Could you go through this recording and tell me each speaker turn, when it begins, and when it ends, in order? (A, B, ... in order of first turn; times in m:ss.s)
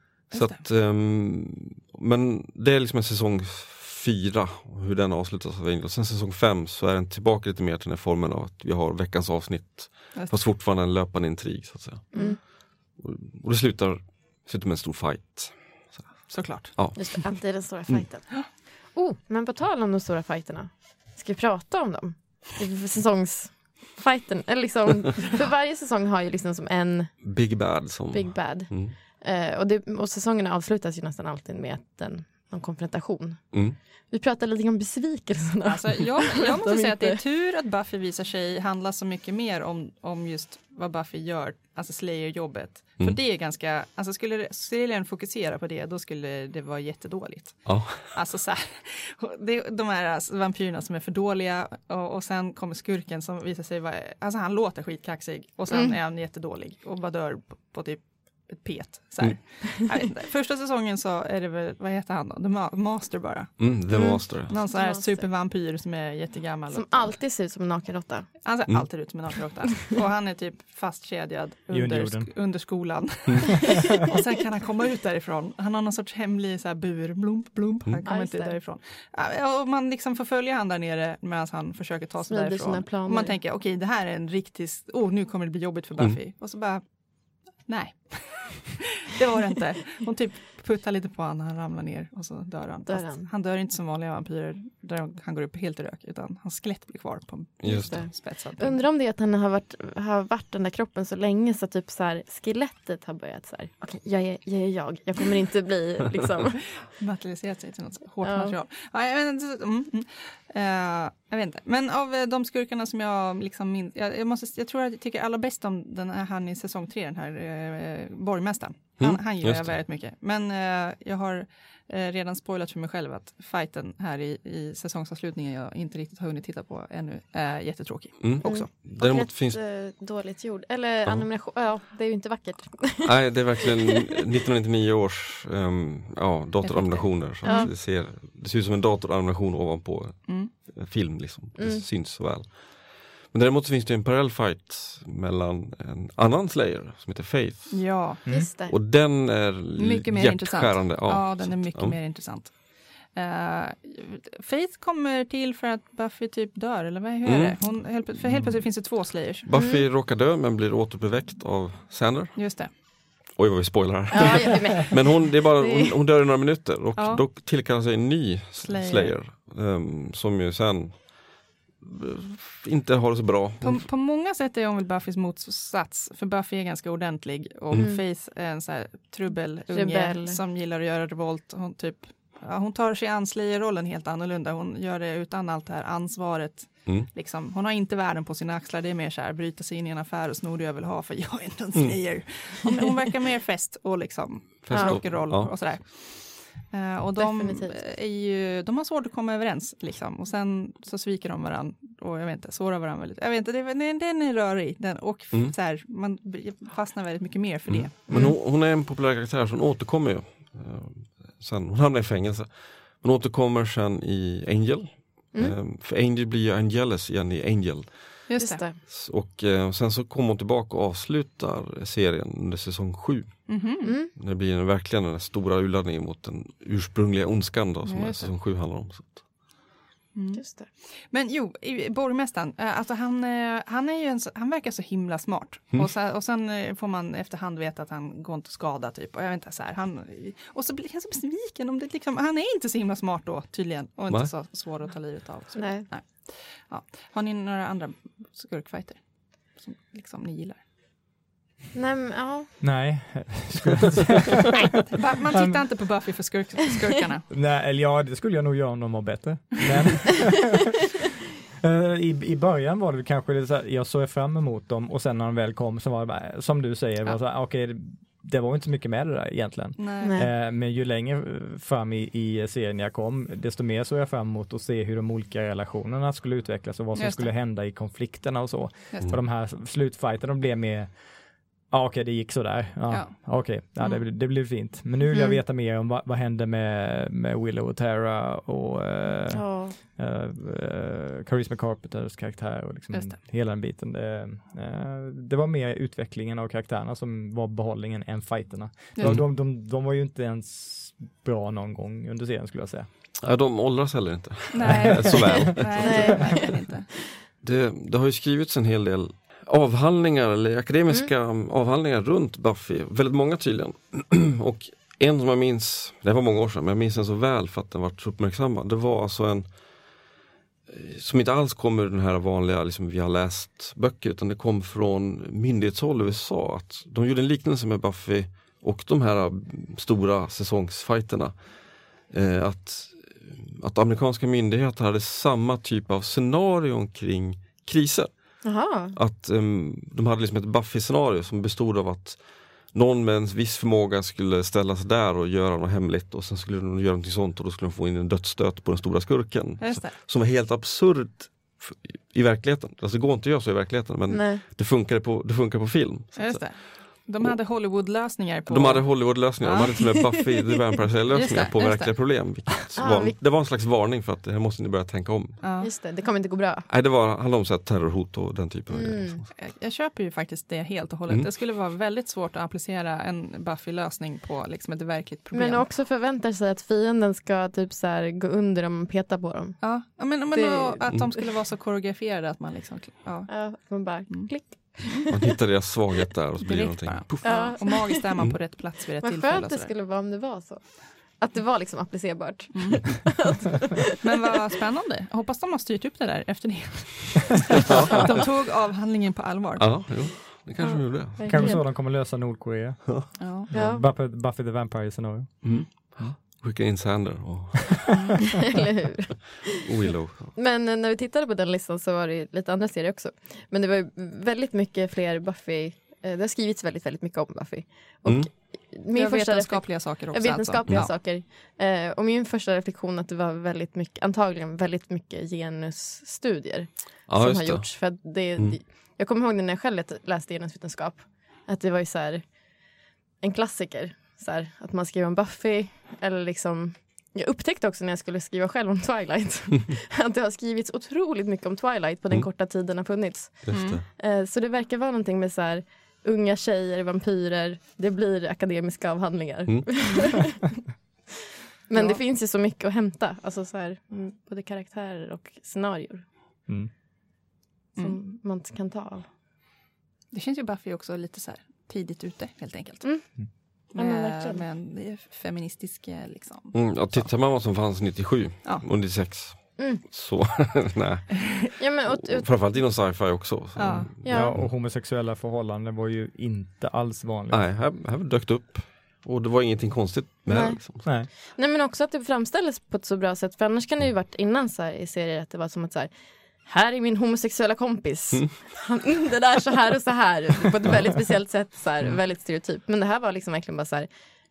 0:00.3-0:00.6 A
0:00.3-0:18.0 B
0:10.1-0:10.5 A
0:12.1-0:12.4 C
0:16.3-0:17.2 A
0:16.9-0:37.2 C
0:27.2-0:28.9 B
0:33.5-0:33.8 B
0:35.6-1:07.2 A
0:47.6-0:48.2 B
0:55.7-0:56.0 C
1:03.6-1:04.5 B
1:03.9-1:05.3 C
1:06.7-1:08.3 C
1:08.4-1:38.8 A
1:11.7-1:12.3 D
1:18.0-1:18.6 C
1:22.3-1:23.4 C
1:32.9-1:33.3 C
1:37.6-1:38.1 B
1:37.7-1:46.8 C
1:46.8-2:08.7 A
1:48.2-1:48.6 C
1:59.0-1:59.8 B
2:08.2-2:09.6 B
2:08.4-2:13.4 C
2:11.0-2:11.3 B
2:13.0-2:28.1 B
2:16.6-2:17.7 A
2:17.4-2:17.7 C
2:20.3-2:20.5 A
2:21.6-2:21.8 C
2:27.7-2:28.2 A
2:28.2-2:28.5 D
2:28.3-2:28.8 C
2:28.6-2:32.0 B
2:29.8-2:39.4 A
2:37.2-2:37.6 B
2:38.3-2:38.6 D
2:39.4-2:53.9 B
2:39.5-2:39.8 C
2:42.4-2:42.7 A
2:44.1-2:46.0 C
2:47.0-2:47.2 A
2:48.6-2:49.2 A
2:53.6-3:28.3 A
2:57.7-2:58.0 C
2:59.7-3:00.4 C
3:11.7-3:12.2 B
3:14.6-3:15.8 B
3:14.7-3:15.0 C
3:17.2-3:17.8 C
3:27.7-3:38.2 B
3:28.1-3:28.4 C
3:38.3-3:38.6 A
3:38.4-3:38.8 C
3:38.9-3:49.3 B
3:43.5-3:44.0 A
3:43.8-3:44.1 C
3:47.8-3:48.3 A
3:50.1-4:10.6 A
3:50.3-3:50.7 C
4:05.5-4:05.9 C
4:11.7-4:12.6 C
4:12.6-4:14.5 D
4:14.8-4:17.3 A
4:15.3-4:15.7 D
4:17.3-4:20.6 D
4:21.6-5:02.9 D
4:29.8-4:30.2 A
4:30.0-4:30.3 C
4:36.9-4:37.3 A
4:42.9-4:44.0 A
4:45.1-4:45.4 C
4:49.3-4:49.8 C
4:52.9-4:53.2 A
4:59.0-4:59.2 A
4:59.0-4:59.2 B
5:03.2-5:06.4 B
5:04.5-5:06.9 A
5:05.8-5:06.4 C
5:07.4-5:19.5 B
5:20.7-5:31.5 B
5:32.1-5:57.4 B
5:38.4-5:39.0 C
5:49.6-5:50.0 A
5:54.1-5:54.4 C
5:56.1-6:00.0 A
5:58.5-6:05.4 B
6:01.1-6:02.6 A
6:02.8-6:03.2 C
6:05.4-6:05.7 A
6:05.6-6:06.7 C
6:06.7-6:09.3 B
6:08.7-6:09.2 C
6:09.3-6:15.7 A
6:15.3-6:20.8 C
6:19.6-6:25.1 A
6:23.3-6:25.2 C
6:25.1-6:28.4 B
6:26.4-6:29.7 A
6:27.2-6:28.0 C
6:29.0-6:33.8 C
6:32.5-6:33.1 A
6:34.0-6:40.8 A
6:37.6-6:38.2 B
6:39.6-6:41.2 B
6:41.2-6:41.6 C
6:41.3-6:46.1 D
6:43.2-6:43.5 A
6:43.5-6:43.9 C
6:45.4-6:48.0 B
6:48.5-6:49.6 C
6:49.5-6:50.3 B
6:50.3-7:30.7 C
6:58.0-6:58.3 B
6:58.9-7:00.9 A
7:07.1-7:08.6 B
7:23.4-7:23.8 B
7:23.5-7:23.8 A
7:31.7-7:36.0 C
7:31.7-7:32.0 A
7:37.7-7:39.0 C
7:40.1-7:43.2 A
7:42.8-7:44.4 C
7:43.7-7:47.1 A
7:46.5-7:54.5 B
7:49.6-7:49.8 C
7:51.6-7:52.6 C
7:53.6-7:53.9 A
7:54.0-7:54.4 C
7:54.0-7:57.5 D
7:57.3-8:00.9 B
8:00.3-8:13.9 C